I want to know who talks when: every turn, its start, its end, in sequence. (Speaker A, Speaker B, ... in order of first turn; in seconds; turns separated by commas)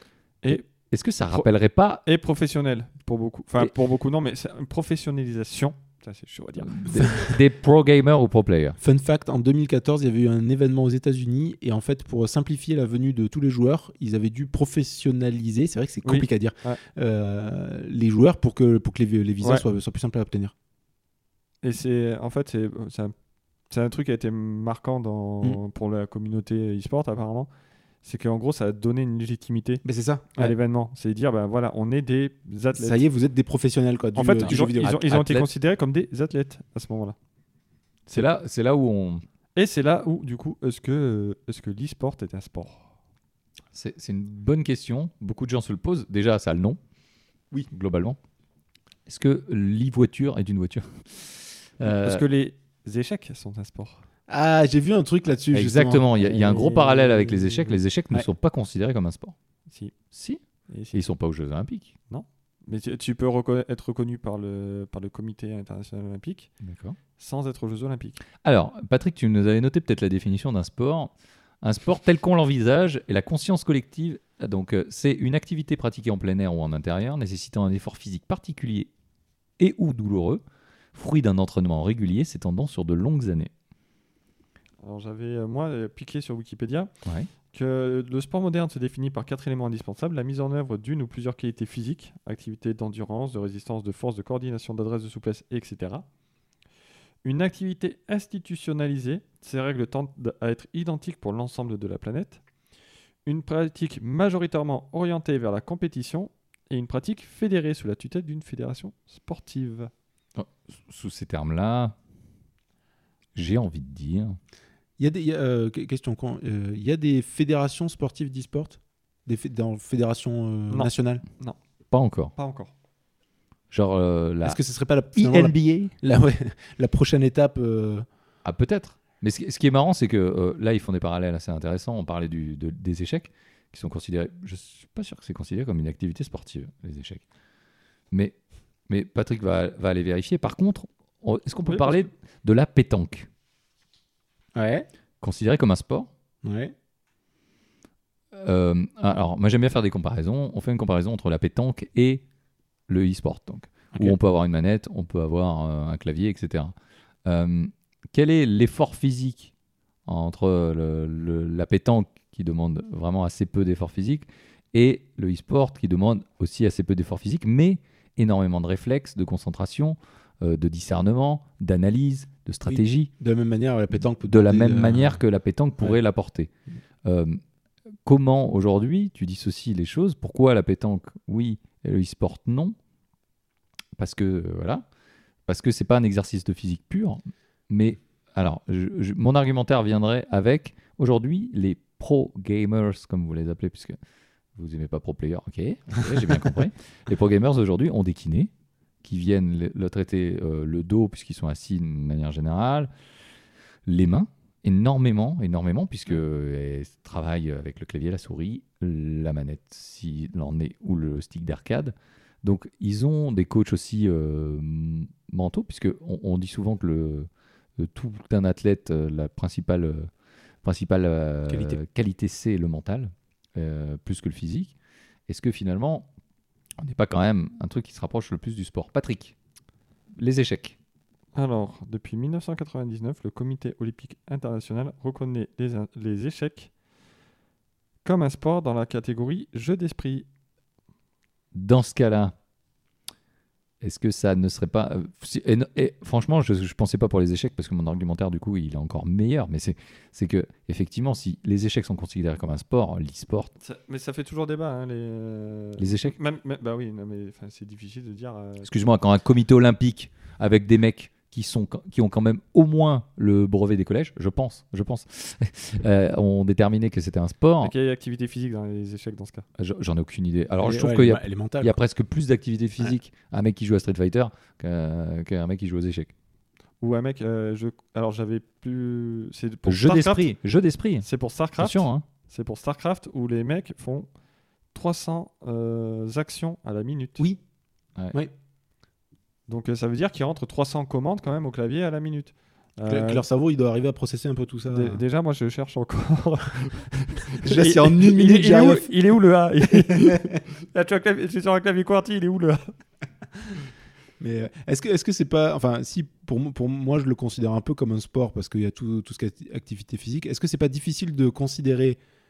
Speaker A: 0.4-0.7, Speaker B: 0.5-2.0, Speaker A: 2.0-6.8, Speaker B: 6.7-8.8, Speaker C: 8.8-20.5, Speaker A: 16.0-16.8, Speaker A: 21.6-23.1, Speaker A: 23.7-27.5, Speaker A: 28.0-29.8, Speaker C: 29.8-30.5, Speaker A: 30.3-33.0, Speaker C: 32.7-35.4, Speaker A: 34.1-37.1, Speaker B: 38.1-39.2, Speaker A: 39.5-42.9, Speaker B: 43.7-46.8, Speaker B: 47.7-48.2, Speaker B: 49.1-52.2, Speaker A: 51.8-54.0, Speaker C: 54.3-56.6, Speaker B: 55.5-59.3, Speaker A: 56.2-57.8, Speaker A: 59.7-59.9, Speaker B: 60.1-60.4, Speaker A: 60.7-61.0, Speaker B: 60.9-61.9, Speaker A: 62.1-66.5, Speaker B: 66.6-67.0, Speaker A: 67.2-68.2, Speaker B: 68.4-78.9, Speaker B: 79.6-80.4, Speaker B: 80.9-83.5, Speaker A: 84.8-86.9, Speaker A: 87.5-96.0, Speaker A: 97.2-102.4, Speaker A: 103.2-109.9, Speaker B: 110.3-111.9, Speaker B: 113.3-114.4, Speaker C: 115.0-121.2, Speaker A: 120.7-121.6, Speaker B: 121.9-122.3, Speaker A: 122.3-122.7, Speaker B: 123.7-124.6, Speaker C: 124.4-128.1, Speaker B: 125.1-125.9, Speaker B: 128.4-137.2, Speaker B: 138.9-143.3, Speaker A: 141.6-142.1, Speaker C: 144.5-144.9, Speaker B: 145.2-146.1, Speaker C: 146.4-146.7, Speaker B: 148.3-152.2, Speaker B: 152.9-156.7, Speaker B: 157.2-159.5, Speaker B: 160.1-173.1, Speaker C: 172.7-175.2, Speaker B: 174.1-176.5, Speaker B: 177.0-177.4, Speaker B: 178.0-182.7, Speaker B: 184.0-184.8, Speaker B: 185.5-193.9, Speaker B: 194.5-198.5, Speaker B: 199.0-202.9, Speaker B: 203.9-220.1, Speaker B: 220.6-224.7, Speaker C: 221.5-221.8, Speaker B: 225.3-226.1, Speaker B: 226.8-229.3, Speaker B: 230.2-230.8, Speaker A: 231.3-236.7, Speaker A: 238.0-240.2, Speaker B: 241.5-242.3, Speaker B: 243.8-253.5, Speaker A: 253.6-258.7, Speaker B: 255.8-256.1, Speaker B: 258.6-267.7, Speaker A: 267.6-269.4, Speaker B: 269.6-276.1, Speaker C: 270.6-271.7, Speaker A: 276.8-280.3, Speaker B: 279.6-282.0, Speaker A: 281.0-284.1, Speaker A: 284.7-287.2, Speaker A: 289.5-293.2, Speaker C: 292.9-295.0, Speaker A: 294.7-302.7, Speaker C: 297.4-298.9, Speaker C: 299.8-300.3, Speaker C: 304.2-312.0